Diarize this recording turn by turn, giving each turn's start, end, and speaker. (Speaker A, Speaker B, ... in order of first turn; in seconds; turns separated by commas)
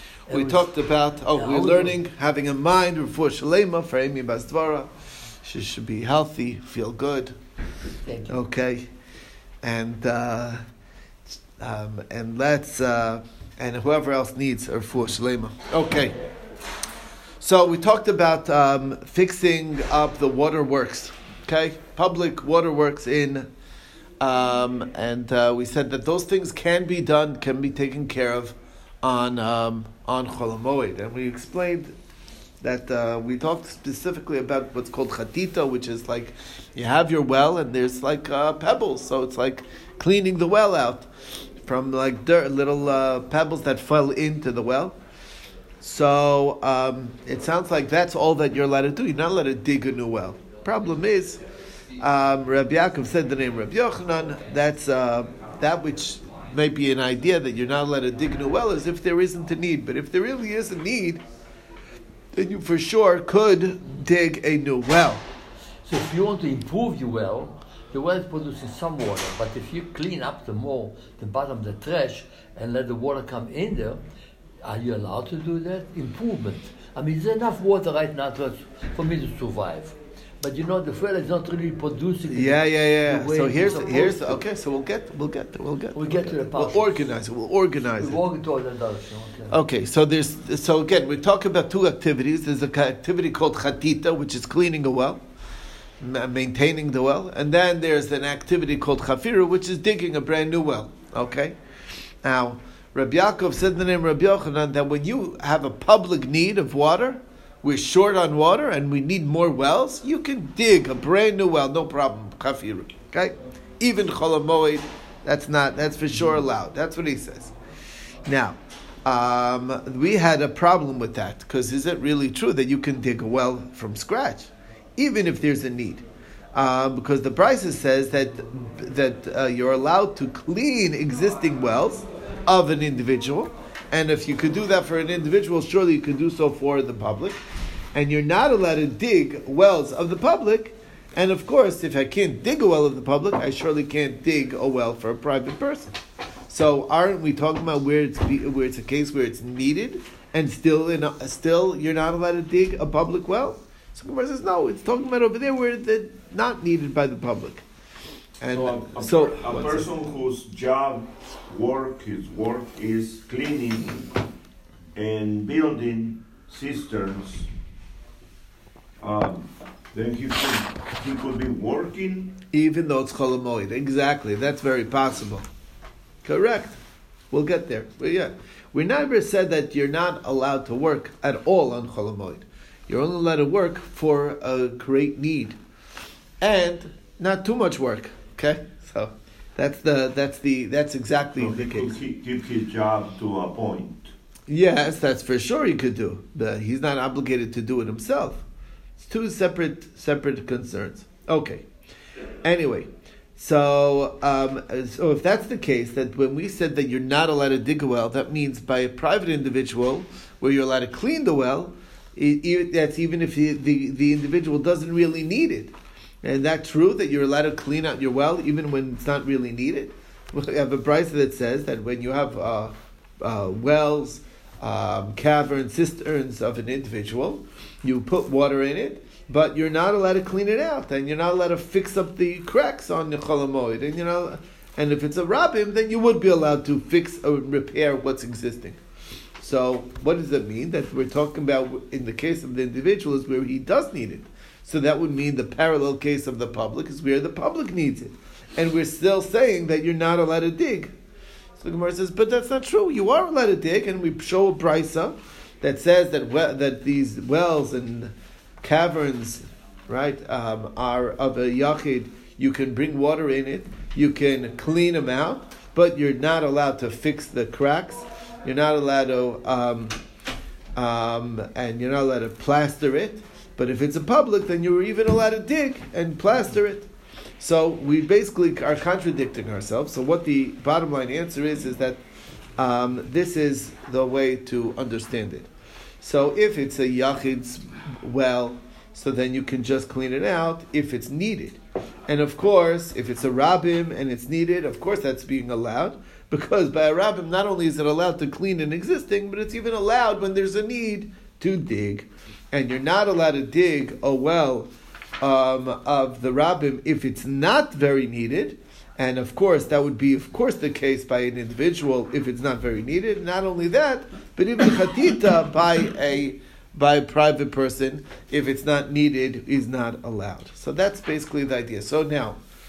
Speaker A: 0.3-0.7, Speaker B: 0.3-7.3, Speaker A: 1.2-2.0, Speaker A: 8.1-8.3, Speaker B: 8.2-8.9, Speaker B: 9.6-10.6, Speaker B: 11.6-16.1, Speaker B: 17.4-23.5, Speaker B: 24.2-31.9, Speaker B: 32.6-41.1, Speaker B: 41.6-45.0, Speaker B: 45.8-51.4, Speaker B: 52.0-61.2, Speaker B: 62.3-65.2, Speaker A: 65.8-74.0, Speaker A: 74.6-84.4, Speaker B: 82.3-88.2, Speaker A: 85.9-87.1, Speaker A: 88.0-89.5, Speaker B: 89.5-95.2, Speaker B: 96.0-101.6, Speaker B: 102.2-117.5, Speaker B: 118.2-137.4, Speaker B: 137.9-145.9, Speaker B: 146.5-157.6, Speaker B: 158.4-159.9, Speaker C: 158.5-164.2, Speaker C: 164.9-167.5, Speaker C: 169.0-172.4, Speaker B: 172.5-175.5, Speaker B: 176.2-176.8, Speaker B: 177.3-185.6, Speaker B: 186.4-191.9, Speaker C: 191.4-194.1, Speaker B: 194.5-198.4, Speaker B: 199.0-201.7, Speaker B: 202.4-238.8, Speaker B: 239.4-250.9, Speaker B: 251.6-270.0, Speaker B: 270.8-276.9, Speaker B: 277.4-282.0, Speaker B: 282.6-285.5, Speaker B: 286.0-322.4